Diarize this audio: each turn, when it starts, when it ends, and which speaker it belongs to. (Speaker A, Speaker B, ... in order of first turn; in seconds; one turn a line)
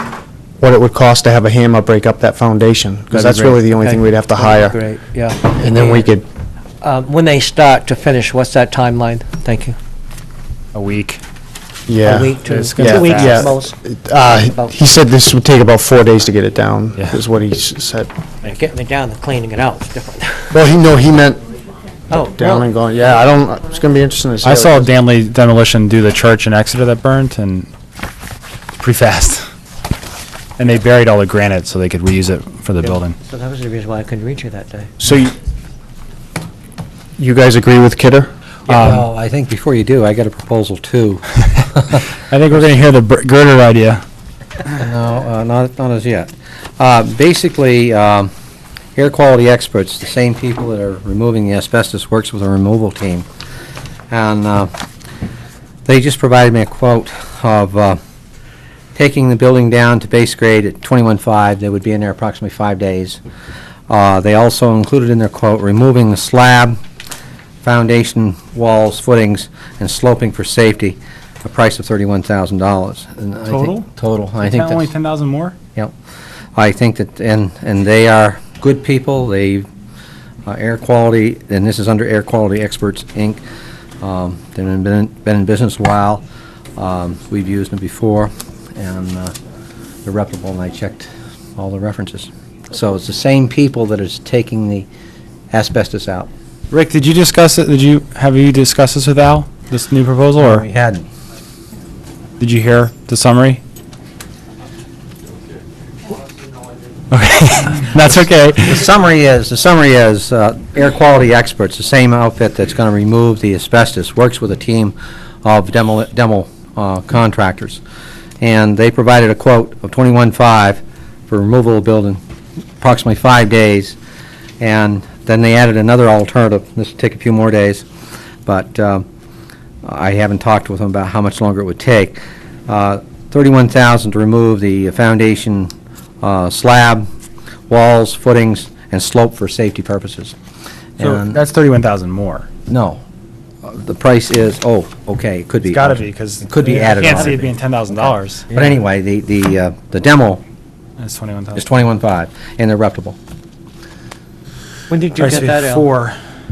Speaker A: 0.6-4.8
Speaker B: 3.1-3.6
Speaker C: 3.7-6.1
Speaker A: 5.5-6.2
Speaker C: 6.8-9.8
Speaker B: 10.7-11.2
Speaker A: 11.9-18.1
Speaker C: 12.0-13.7
Speaker B: 12.4-13.5
Speaker C: 14.3-14.7
Speaker C: 18.4-20.5
Speaker A: 20.5-21.4
Speaker C: 22.1-22.7
Speaker A: 22.3-24.9
Speaker B: 24.4-27.7
Speaker B: 28.8-29.5
Speaker B: 30.6-33.1
Speaker C: 32.8-34.9
Speaker A: 35.0-35.3
Speaker A: 37.2-38.3
Speaker D: 38.7-42.1
Speaker B: 38.7-39.1
Speaker B: 42.2-44.0
Speaker D: 44.7-48.3
Speaker D: 49.0-53.2
Speaker D: 54.1-54.7
Speaker D: 55.9-58.0
Speaker D: 58.9-63.2
Speaker D: 63.9-66.8
Speaker D: 67.6-74.9
Speaker B: 73.4-73.9
Speaker B: 74.4-75.5
Speaker D: 76.5-79.7
Speaker D: 80.5-83.4
Speaker D: 84.0-86.2
Speaker D: 86.8-89.3
Speaker D: 90.0-94.9
Speaker D: 95.5-96.3
Speaker B: 96.7-100.6
Speaker D: 100.4-101.1
Speaker B: 102.4-103.6
Speaker B: 107.1-108.8
Speaker D: 108.6-117.8
Speaker D: 118.4-122.2
Speaker D: 122.8-124.0
Speaker D: 124.6-127.8
Speaker D: 128.4-129.1
Speaker D: 129.8-137.1
Speaker D: 137.7-140.3
Speaker D: 141.0-141.4
Speaker B: 141.0-142.5
Speaker D: 142.7-143.0
Speaker D: 143.6-147.5
Speaker B: 145.7-148.4
Speaker C: 148.5-148.8
Speaker D: 148.5-150.4
Speaker B: 151.0-151.7
Speaker D: 151.6-153.2
Speaker C: 154.9-155.9
Speaker B: 155.2-156.2